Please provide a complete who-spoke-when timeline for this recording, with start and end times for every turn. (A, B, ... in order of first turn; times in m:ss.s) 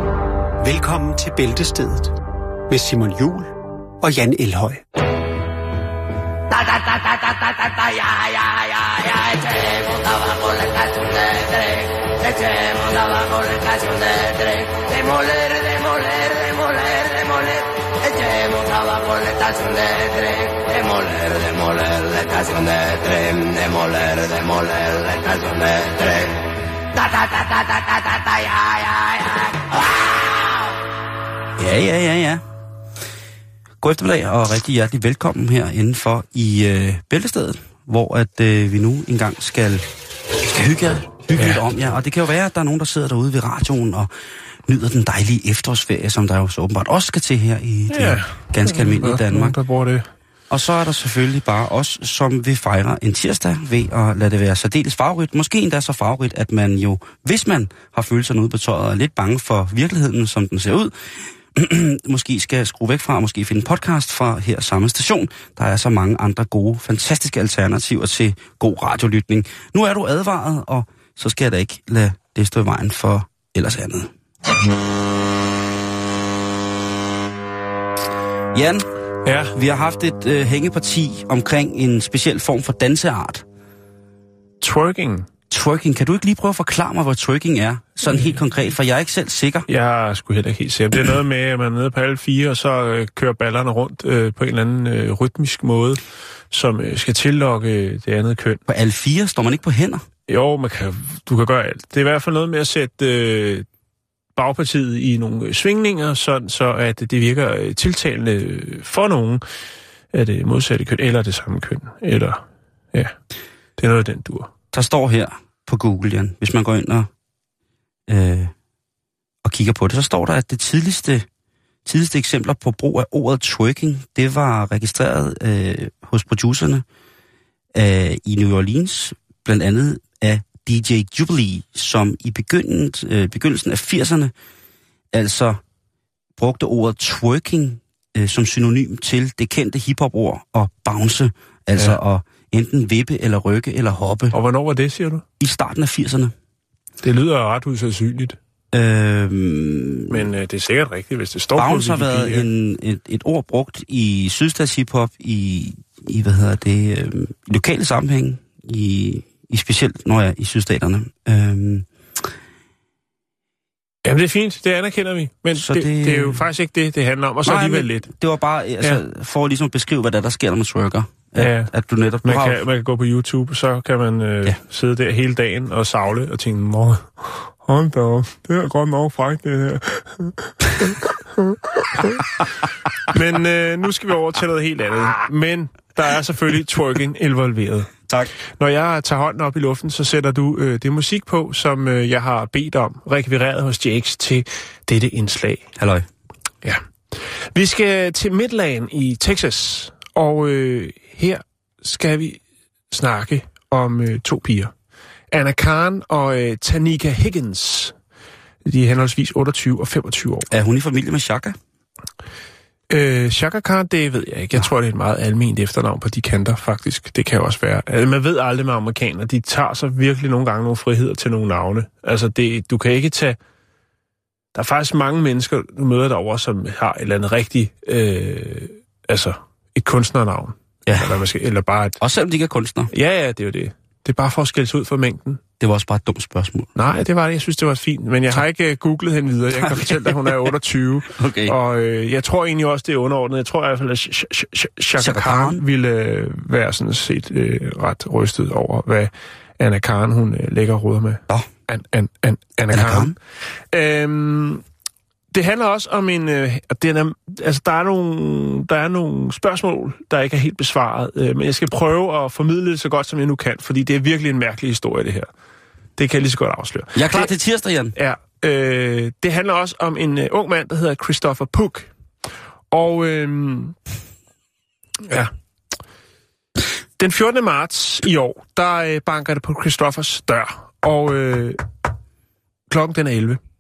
0:00.6-0:02.2 A
0:02.7-0:04.8 A
0:06.5-0:26.4 B
0:26.9-0:30.7 B
0:31.6-0:32.4 C
0:33.8-0:39.9 C
0:40.4-0:44.1 C
0:41.4-0:41.6 D
0:44.7-0:49.6 C
0:47.9-0:50.1 D
0:50.5-1:14.1 C
1:18.5-1:18.9 C
1:19.2-1:19.6 D
1:19.5-1:23.4 C
1:24.6-1:25.3 D
1:25.5-1:29.7 C
1:28.1-1:28.4 D
1:29.7-1:38.6 D
1:38.7-1:40.0 C
1:40.3-1:43.7 D
1:44.4-1:49.4 D
1:50.1-1:53.2 D
1:53.8-1:54.5 D
1:54.7-1:57.1 C
1:58.1-1:58.5 C
1:59.4-2:01.3 C
2:01.9-2:06.8 C
2:07.7-2:14.3 C
2:15.1-2:15.6 C
2:16.4-2:24.4 C
2:24.3-2:25.2 D
2:25.4-2:26.3 C
2:27.0-2:28.4 D
2:28.7-2:30.2 C
2:30.1-2:32.5 D
2:31.6-2:41.9 C
2:44.0-2:48.1 D
2:45.6-2:46.4 C
2:47.4-2:52.6 C
2:51.4-2:51.7 D
2:52.2-3:02.4 D
3:03.1-3:07.9 D
3:08.6-3:15.7 D
3:15.8-3:16.1 C
3:17.6-3:24.7 D
3:25.3-3:28.0 D
3:28.6-3:30.5 D
3:30.5-3:31.6 C
3:32.9-3:43.4 D
3:44.6-3:52.0 D
3:50.9-3:51.2 C
3:52.0-3:52.9 C
3:52.9-3:55.4 D
3:55.6-3:56.7 C
3:56.8-4:13.2 D
3:59.5-4:00.5 C
4:01.2-4:01.6 C
4:05.0-4:05.6 C
4:12.7-4:13.2 C
4:13.7-4:14.6 D
4:15.3-4:25.3 D
4:26.0-4:27.3 D
4:27.0-4:28.0 C
4:28.0-4:31.9 D
4:32.7-4:33.8 D
4:35.1-4:35.3 D
4:37.0-4:41.6 D
4:42.7-4:43.4 D